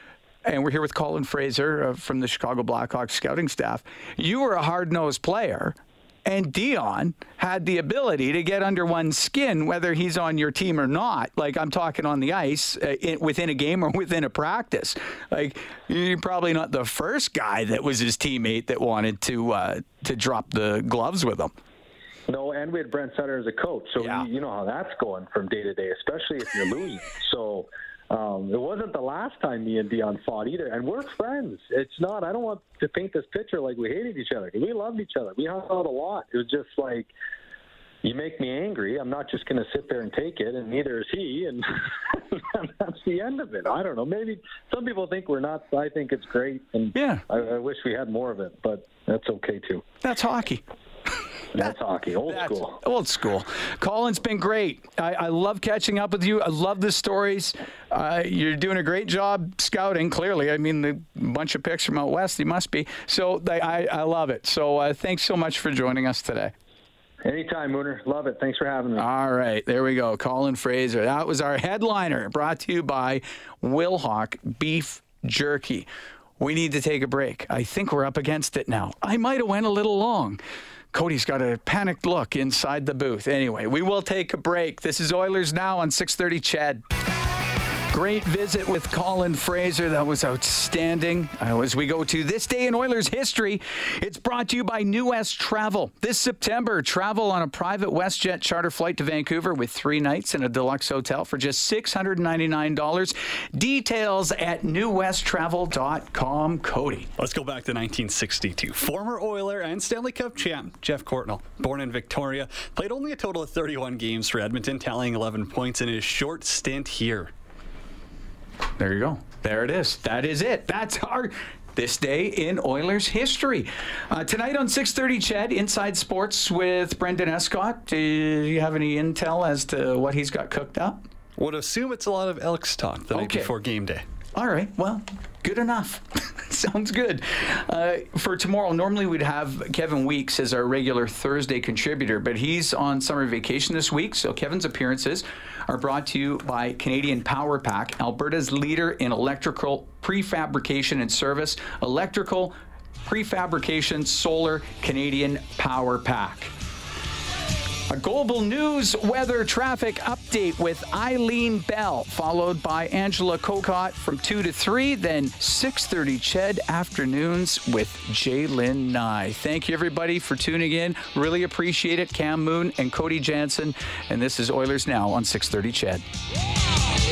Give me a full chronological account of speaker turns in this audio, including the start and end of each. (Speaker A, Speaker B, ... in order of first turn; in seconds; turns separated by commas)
Speaker A: 0.5-21.5, Speaker B: 22.3-37.1, Speaker A: 24.0-24.3, Speaker B: 38.0-49.9, Speaker A: 47.0-47.2, Speaker A: 50.0-50.6, Speaker B: 51.5-52.8, Speaker A: 52.3-66.5, Speaker B: 67.2-69.1, Speaker A: 69.0-75.9, Speaker A: 76.4-80.4, Speaker A: 80.9-86.8, Speaker A: 87.9-107.1, Speaker C: 107.2-117.3, Speaker A: 118.8-131.0, Speaker C: 131.4-134.0, Speaker A: 133.1-133.5, Speaker A: 134.3-152.6, Speaker A: 153.1-156.5, Speaker A: 157.9-176.0